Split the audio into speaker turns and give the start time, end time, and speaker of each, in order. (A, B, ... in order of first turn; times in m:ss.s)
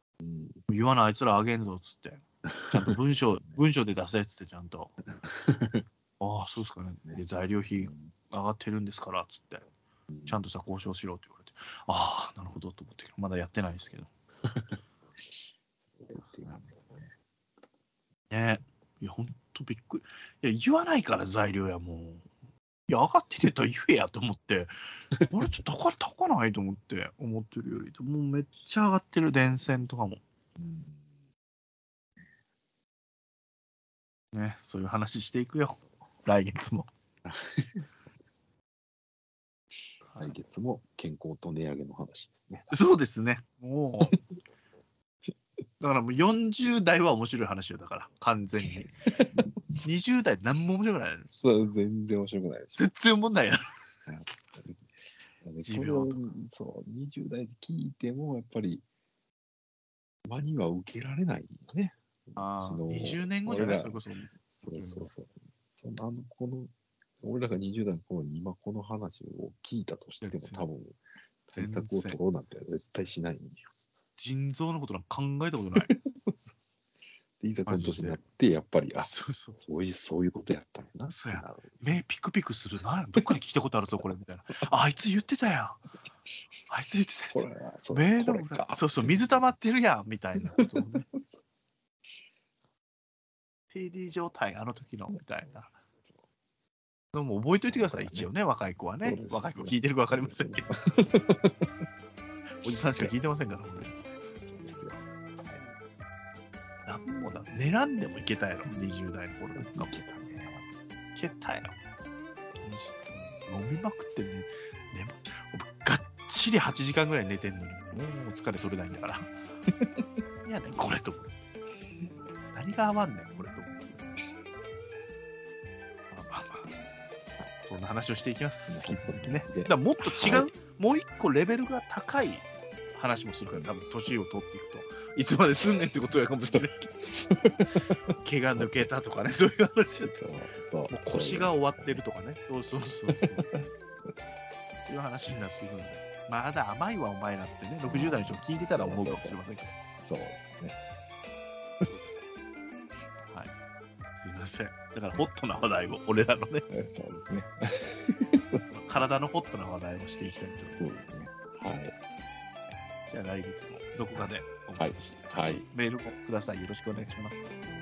0:00.2-0:00.6 A
0:00.7-0:04.9 B
0:02.6-0:03.6 A
0:05.2-0:05.8 A
0:06.2-0:09.6 B
0:07.8-0:08.1 A
0:10.1-0:10.4 A
0:10.3-0:14.1 B
0:15.9-0:17.1 A
0:18.3-0:22.2 B
0:22.9-0:24.7 B
0:25.3-0:30.2 B
0:30.6-0:31.1 A
0:34.3-0:36.9 B
0:37.2-0:37.9 A
0:40.1-0:40.4 B
0:40.2-0:42.7 A
0:42.7-0:44.2 B
0:45.8-0:48.9 B
0:48.7-0:49.8 A
0:49.8-0:51.3 B
0:51.3-0:52.8 A
0:52.8-0:53.6 B
0:54.1-0:54.9 A
0:55.4-0:58.8 A
0:55.6-0:56.2 B
1:00.3-1:13.7 A
1:02.4-1:05.1 B
1:10.2-1:10.6 B
1:11.6-1:12.2 B
1:14.2-1:15.9 B
1:15.9-1:16.8 A
1:17.4-1:21.8 A
1:17.7-1:18.2 B
1:19.0-1:19.6 B
1:21.1-1:25.8 B
1:26.7-1:31.1 B
1:27.3-1:29.5 A
1:30.4-1:31.4 A
1:33.7-1:35.8 B
1:37.1-1:40.7 B
1:37.7-1:38.3 A
1:39.0-1:41.7 A
1:42.6-1:44.0 B
1:43.8-1:45.6 A
1:46.9-1:50.0 B
1:48.7-1:48.9 A
1:49.6-1:50.7 A
1:51.2-1:51.8 B
1:52.6-1:59.3 B
1:59.8-2:00.0 A
2:00.5-2:01.4 B
2:02.5-2:04.1 B
2:06.1-2:06.7 B
2:07.6-2:17.0 B
2:08.7-2:10.5 A
2:16.0-2:18.9 A
2:18.2-2:20.2 B
2:20.0-2:22.0 A
2:20.9-2:23.5 B
2:23.1-2:24.5 A
2:24.8-2:29.7 B
2:27.9-2:29.4 A
2:30.0-2:30.8 A
2:31.9-2:32.2 B
2:34.2-2:36.6 B
2:36.7-2:38.6 A
2:38.7-2:41.0 B
2:40.7-2:41.9 A
2:43.1-2:47.5 B
2:44.8-2:45.6 A